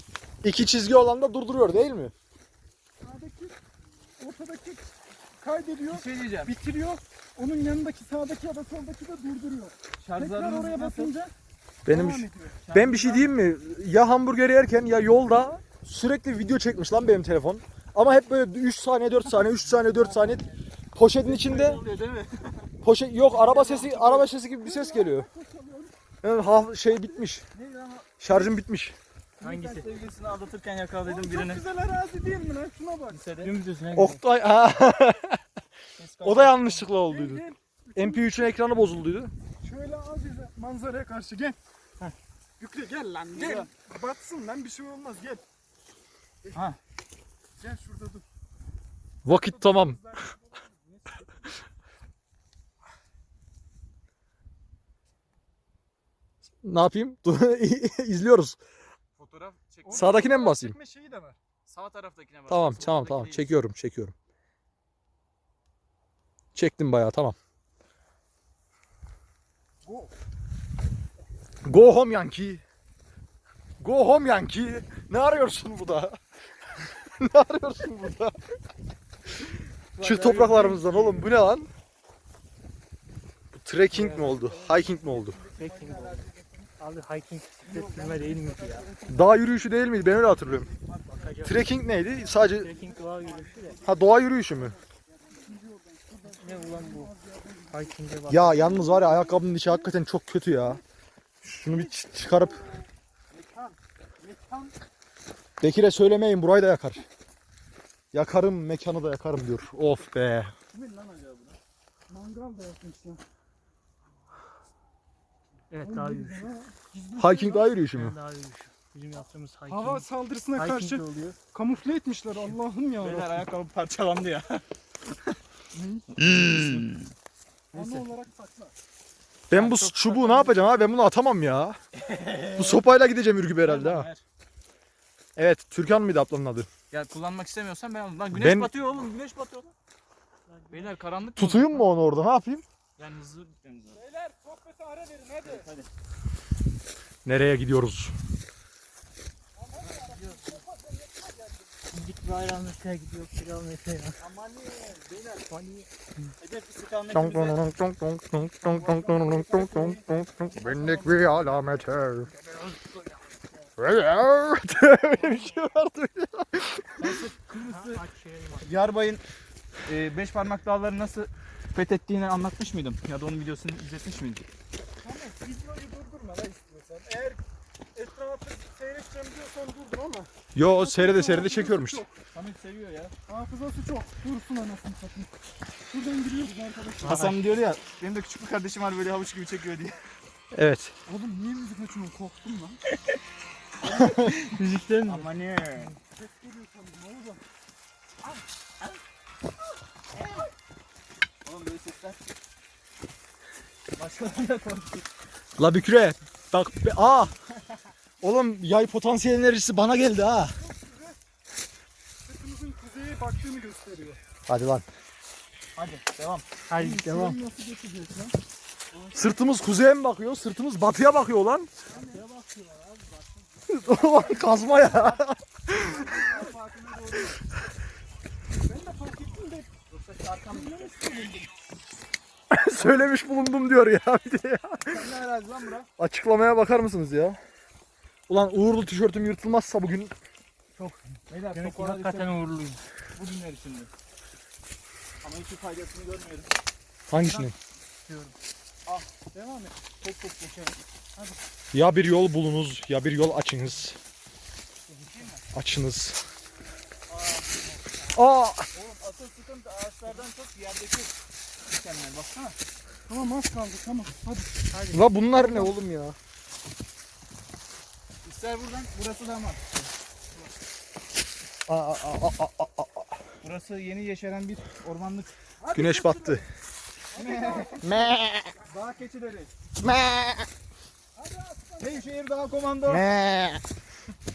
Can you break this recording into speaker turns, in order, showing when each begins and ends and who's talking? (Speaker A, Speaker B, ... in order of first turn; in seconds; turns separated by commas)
Speaker A: 0.4-2.1, Speaker B: 3.0-3.6, Speaker B: 4.2-4.8, Speaker B: 5.4-11.3, Speaker C: 5.9-6.5, Speaker C: 10.0-11.1, Speaker A: 11.9-20.4, Speaker B: 11.9-12.6, Speaker C: 12.7-13.3, Speaker C: 19.7-20.6, Speaker A: 20.9-21.8, Speaker C: 21.2-22.7, Speaker A: 22.8-25.3, Speaker C: 23.3-24.2, Speaker B: 24.1-25.9, Speaker A: 26.2-27.5, Speaker C: 27.6-28.4, Speaker A: 28.2-29.0, Speaker C: 29.4-31.6, Speaker D: 29.4-29.9, Speaker B: 31.0-33.2, Speaker C: 33.1-33.5, Speaker D: 33.4-34.2, Speaker A: 33.9-35.4, Speaker C: 36.0-36.9, Speaker A: 36.2-37.4, Speaker B: 37.0-38.5, Speaker A: 38.0-39.3, Speaker B: 39.6-41.6, Speaker B: 42.6-45.4, Speaker C: 43.3-43.7, Speaker B: 47.6-48.2, Speaker A: 49.2-50.0, Speaker B: 49.3-51.3, Speaker A: 56.6-58.6, Speaker C: 59.2-60.2, Speaker B: 59.9-61.4, Speaker A: 59.9-60.8, Speaker C: 61.7-63.6, Speaker A: 62.5-64.1, Speaker A: 66.5-67.4, Speaker B: 69.8-70.1, Speaker A: 71.7-72.6, Speaker A: 73.8-76.2, Speaker A: 76.8-78.4, Speaker C: 80.0-81.3, Speaker A: 80.0-81.7, Speaker A: 83.5-85.4, Speaker C: 84.0-86.7, Speaker D: 85.6-86.2, Speaker D: 86.8-88.9, Speaker C: 87.7-89.4, Speaker A: 89.1-90.7, Speaker C: 90.1-91.5, Speaker D: 91.2-91.7, Speaker A: 91.4-92.7, Speaker D: 92.2-93.9, Speaker B: 92.8-93.5, Speaker C: 92.9-93.7, Speaker A: 93.8-94.8, Speaker B: 95.2-98.0, Speaker D: 96.4-97.1, Speaker D: 97.7-98.9, Speaker A: 98.3-100.8, Speaker B: 98.7-99.9, Speaker A: 101.4-102.6, Speaker B: 101.5-102.8, Speaker C: 103.3-103.8, Speaker B: 104.2-104.7, Speaker A: 105.6-107.0, Speaker A: 108.1-110.5, Speaker C: 110.7-111.6, Speaker B: 112.1-113.2, Speaker D: 115.7-116.5, Speaker B: 115.8-117.7, Speaker A: 117.2-118.2, Speaker D: 117.9-121.4, Speaker B: 119.7-123.4, Speaker C: 123.0-124.6, Speaker B: 125.7-126.1, Speaker C: 126.2-127.1, Speaker A: 126.2-126.8, Speaker B: 127.7-128.7, Speaker A: 129.5-131.8, Speaker C: 129.5-130.7, Speaker C: 131.9-132.8, Speaker A: 132.6-134.1, Speaker C: 133.6-134.2, Speaker A: 135.4-136.7, Speaker C: 136.9-139.7, Speaker A: 138.3-138.7, Speaker C: 140.7-141.9, Speaker A: 141.3-142.7, Speaker C: 143.0-144.0, Speaker B: 143.9-145.7, Speaker C: 145.4-145.9, Speaker A: 147.2-148.1, Speaker B: 149.6-151.7, Speaker D: 151.9-154.2, Speaker C: 154.2-155.5, Speaker D: 155.5-155.9, Speaker C: 156.4-157.6, Speaker A: 157.1-162.3, Speaker C: 158.8-161.1, Speaker D: 162.3-163.7, Speaker A: 163.8-167.2, Speaker C: 167.0-168.0, Speaker D: 167.6-168.8, Speaker C: 168.6-169.2, Speaker C: 169.9-174.4, Speaker B: 175.0-177.4, Speaker B: 177.9-182.1, Speaker A: 180.6-182.0, Speaker C: 182.3-183.1, Speaker B: 183.3-185.3, Speaker B: 185.9-187.3, Speaker D: 187.0-187.4, Speaker C: 187.0-190.0, Speaker A: 190.5-190.9, Speaker B: 191.1-192.8, Speaker A: 194.0-194.3, Speaker D: 194.3-195.3, Speaker C: 194.9-195.9, Speaker B: 196.0-197.4, Speaker C: 200.2-200.5, Speaker C: 201.4-202.2, Speaker C: 203.9-205.1, Speaker A: 205.6-207.3, Speaker A: 208.2-210.6, Speaker B: 210.6-211.2, Speaker B: 212.2-214.2, Speaker A: 214.5-214.9, Speaker C: 215.8-216.5, Speaker D: 216.7-217.4, Speaker B: 216.7-218.3, Speaker C: 218.9-219.4, Speaker A: 219.1-221.7, Speaker B: 221.9-222.2, Speaker C: 221.9-222.3, Speaker D: 222.3-222.8, Speaker A: 223.7-226.1, Speaker C: 224.4-225.2, Speaker C: 225.8-227.4, Speaker B: 226.1-226.6, Speaker B: 228.6-229.7, Speaker C: 229.9-231.3, Speaker B: 230.5-231.4, Speaker A: 232.5-235.1, Speaker C: 234.8-235.9, Speaker A: 236.0-237.4, Speaker A: 238.3-240.1, Speaker C: 241.3-242.4, Speaker D: 241.5-242.8, Speaker C: 243.2-243.9, Speaker C: 245.2-246.5, Speaker A: 247.1-247.6, Speaker D: 247.2-247.5, Speaker D: 248.1-248.3, Speaker C: 248.9-249.2, Speaker B: 249.3-249.7, Speaker C: 249.8-250.8, Speaker A: 251.7-254.0, Speaker C: 255.0-255.4, Speaker A: 255.5-256.2, Speaker C: 257.1-257.8, Speaker A: 258.1-258.7, Speaker C: 258.7-261.1, Speaker C: 261.7-262.6, Speaker B: 263.1-264.7, Speaker D: 264.7-265.7, Speaker A: 264.9-266.2, Speaker C: 268.2-269.7, Speaker A: 271.7-273.1, Speaker C: 273.4-275.3, Speaker B: 275.6-276.4, Speaker A: 275.7-276.4, Speaker B: 277.1-278.0, Speaker C: 277.1-279.5, Speaker A: 277.9-278.2, Speaker A: 279.8-280.5, Speaker B: 281.2-282.1, Speaker C: 281.8-283.1, Speaker A: 282.9-283.6